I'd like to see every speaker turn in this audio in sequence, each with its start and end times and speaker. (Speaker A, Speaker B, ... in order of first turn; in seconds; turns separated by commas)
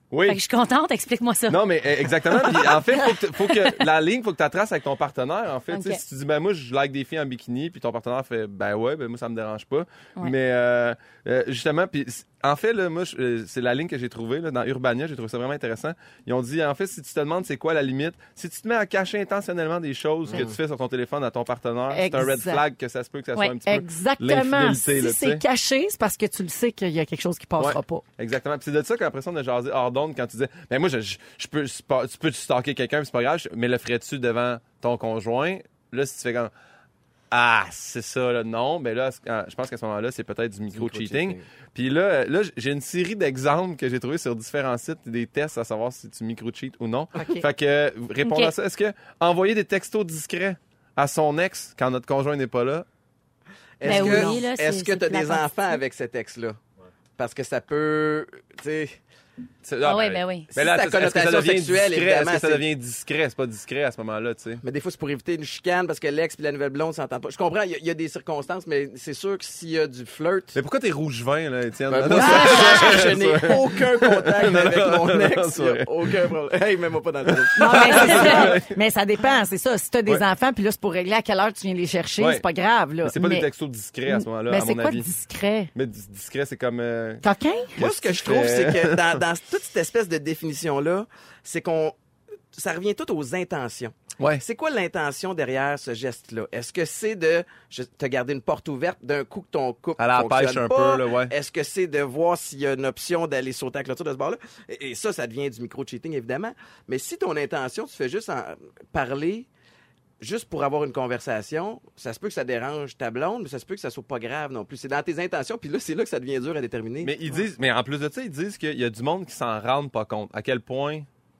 Speaker A: 0.1-0.4, Speaker B: 0.3-1.6, Speaker A: 1.5-25.4, Speaker B: 5.7-6.0, Speaker C: 20.3-20.6, Speaker D: 21.9-22.6, Speaker D: 23.6-28.0, Speaker A: 27.6-36.5, Speaker A: 37.3-52.9, Speaker C: 40.7-41.5, Speaker D: 47.2-47.5, Speaker B: 48.2-48.5, Speaker C: 53.8-56.6, Speaker D: 53.8-54.4, Speaker B: 53.8-55.5, Speaker C: 57.2-59.0, Speaker A: 59.6-64.6, Speaker B: 59.8-60.5, Speaker C: 60.5-62.6, Speaker C: 64.6-70.6, Speaker A: 70.5-76.2, Speaker C: 71.9-78.5, Speaker D: 72.1-73.0, Speaker A: 77.3-78.8, Speaker D: 77.6-83.5, Speaker A: 83.0-85.1, Speaker D: 84.1-85.7, Speaker A: 85.8-87.2, Speaker D: 87.2-87.8, Speaker A: 87.8-89.2, Speaker C: 87.8-92.0, Speaker C: 92.5-109.5, Speaker A: 100.0-101.3, Speaker C: 110.2-117.1, Speaker A: 117.0-121.1